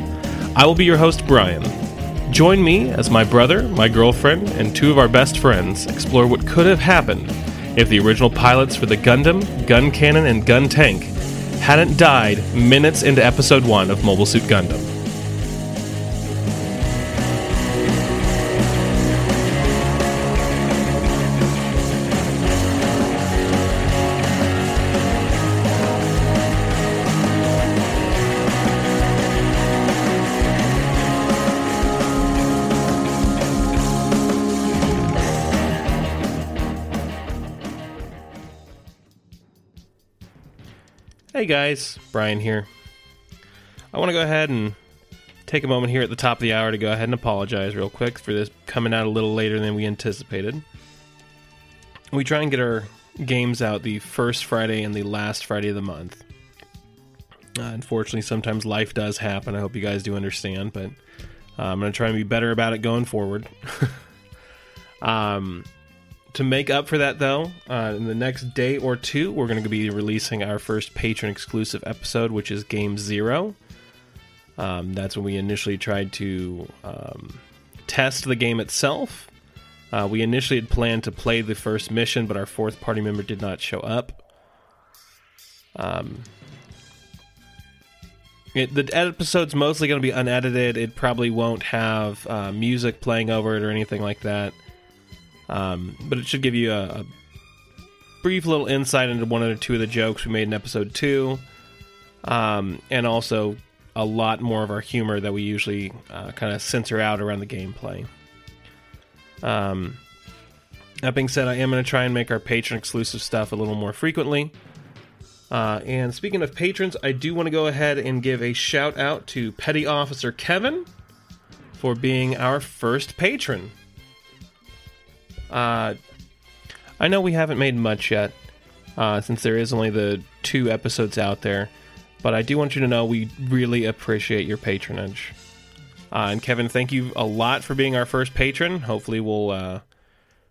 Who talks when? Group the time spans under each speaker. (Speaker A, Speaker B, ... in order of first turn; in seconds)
Speaker A: 0.5-1.8, 2.3-14.9, 41.3-42.7, 43.9-44.8, 45.5-50.6, 52.1-56.2, 57.5-61.0, 61.6-63.9, 65.0-65.7, 66.3-73.5, 74.6-79.3, 79.9-84.2, 85.7-86.3, 88.5-94.5, 95.5-97.1, 98.2-101.4, 102.2-108.1, 109.4-110.0, 111.0-114.5, 115.5-120.9, 121.8-123.7, 125.5-126.0, 127.0-128.3, 129.0-131.7, 132.2-135.3, 136.1-139.8